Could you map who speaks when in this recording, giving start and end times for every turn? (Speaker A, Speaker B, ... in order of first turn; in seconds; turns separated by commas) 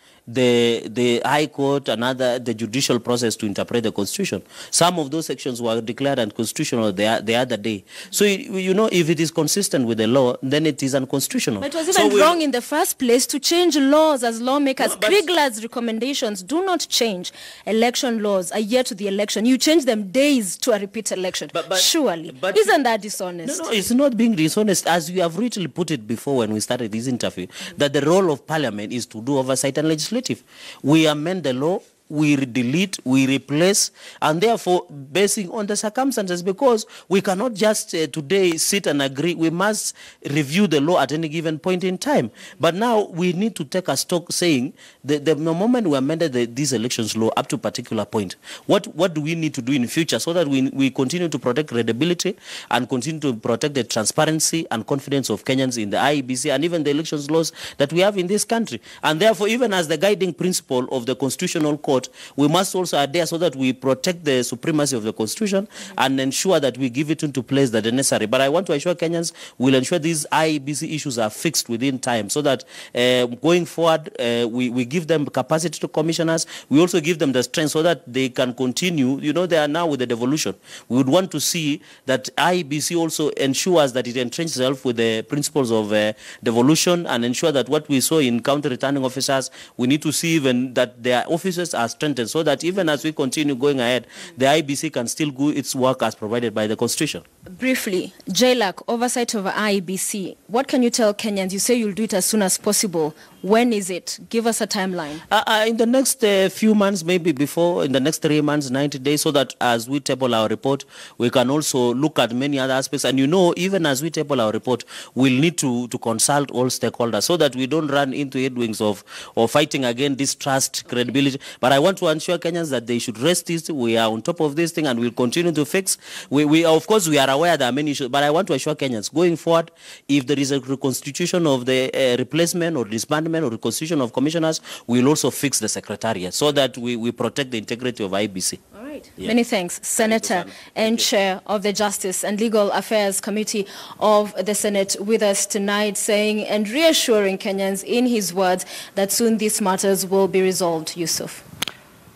Speaker A: 0.3-12.4, Speaker B: 11.6-23.7, Speaker A: 14.8-15.2, Speaker A: 21.5-22.7, Speaker A: 23.4-97.2, Speaker B: 97.5-105.2, Speaker A: 105.3-138.6, Speaker B: 138.7-151.4, Speaker A: 140.0-141.1